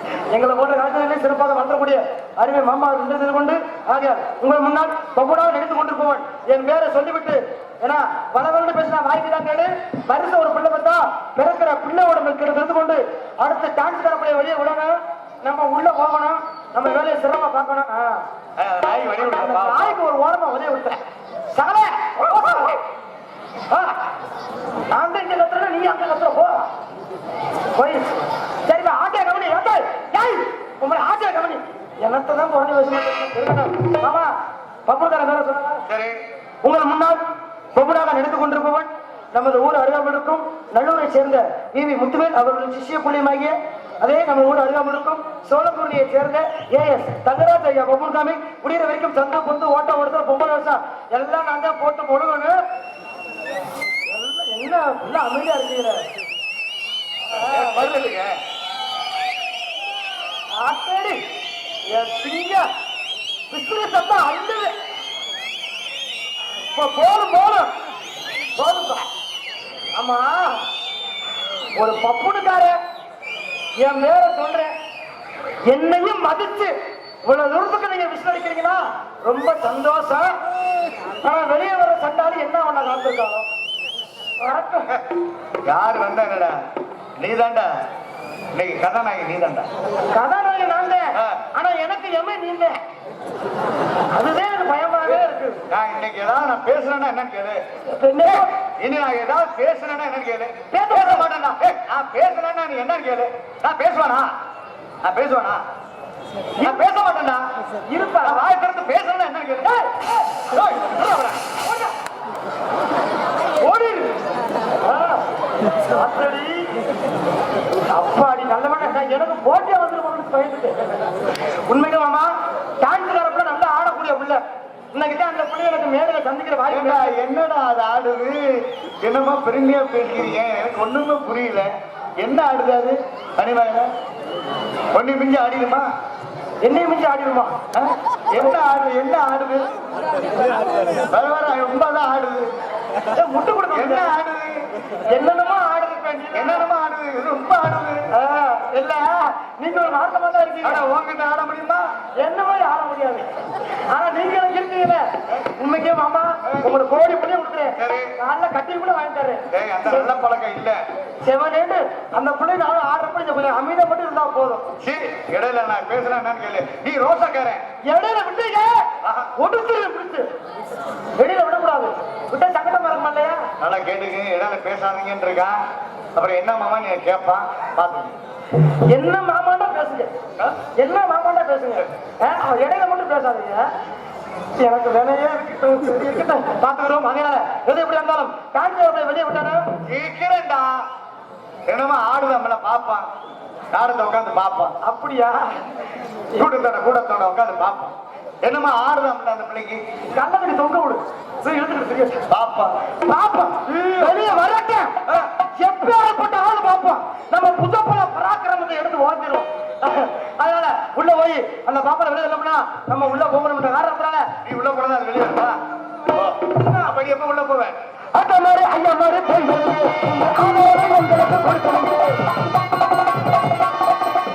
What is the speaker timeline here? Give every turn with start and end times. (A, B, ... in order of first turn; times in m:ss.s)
0:00.3-0:18.2 A
0:18.6-0:20.0 B
0:19.2-0:21.0 A
0:21.5-0:22.9 A
0:23.7-0:24.1 A
0:24.9-0:26.7 A
0:27.8-0:34.3 A
0:34.9-0:35.8 A
0:35.9-0:36.2 B
0:36.6-0:37.2 A
0:37.8-0:52.6 A
0:54.1-0:56.0 A
0:57.3-0:58.1 A
0:57.3-0:58.4 B
1:00.5-1:01.2 A
1:01.9-1:02.7 A
1:03.5-1:04.8 A
1:06.7-1:07.7 A
1:08.6-1:09.1 A
1:10.0-1:10.7 A
1:11.8-1:12.8 A
1:13.8-1:14.7 A
1:15.7-1:20.4 A
1:21.2-1:23.5 A
1:24.4-1:24.9 A
1:25.7-1:26.6 B
1:27.2-1:27.8 B
1:28.5-1:29.7 B
1:30.1-1:32.8 A
1:31.2-1:31.4 B
1:34.1-1:35.6 A
1:35.7-1:37.6 B
1:37.9-1:38.6 A
1:38.2-1:44.3 B
1:40.7-1:41.3 A
1:45.0-1:45.7 B
1:46.6-1:47.4 B
1:47.9-1:48.6 A
1:48.2-1:49.8 B
1:49.6-1:50.1 A
1:50.5-1:51.3 B
1:50.8-1:51.9 A
1:53.6-1:54.2 A
1:54.8-1:55.3 A
1:55.8-1:56.7 A
1:57.8-2:01.2 A
2:01.7-2:04.4 A
2:04.9-2:07.2 A
2:06.7-2:13.9 B
2:14.9-2:15.9 B
2:16.6-2:17.6 A
2:17.7-2:19.8 B
2:20.9-2:22.5 B
2:23.1-2:24.1 A
2:23.7-2:24.7 B
2:25.0-2:26.7 A
2:26.3-2:28.1 B
2:28.1-2:30.8 A
2:30.6-2:31.9 B
2:32.2-2:40.1 A
2:37.8-2:38.1 B
2:39.5-2:40.8 B
2:41.2-2:44.7 A
2:44.8-2:47.6 B
2:47.9-2:50.3 A
2:49.0-2:49.3 B
2:51.2-2:53.5 A
2:53.6-2:55.6 B
2:56.2-2:58.2 B
2:58.9-3:00.1 A
3:00.8-3:03.7 A
3:04.6-3:09.7 A
3:09.9-3:10.8 B
3:11.7-3:13.1 B
3:13.7-3:14.8 B
3:14.8-3:15.6 A
3:16.4-3:19.8 B
3:20.1-3:22.3 A
3:22.3-3:22.9 B
3:23.0-3:25.0 A
3:23.7-3:24.3 B
3:25.5-3:34.3 A
3:34.4-3:37.8 B
3:38.1-3:42.2 A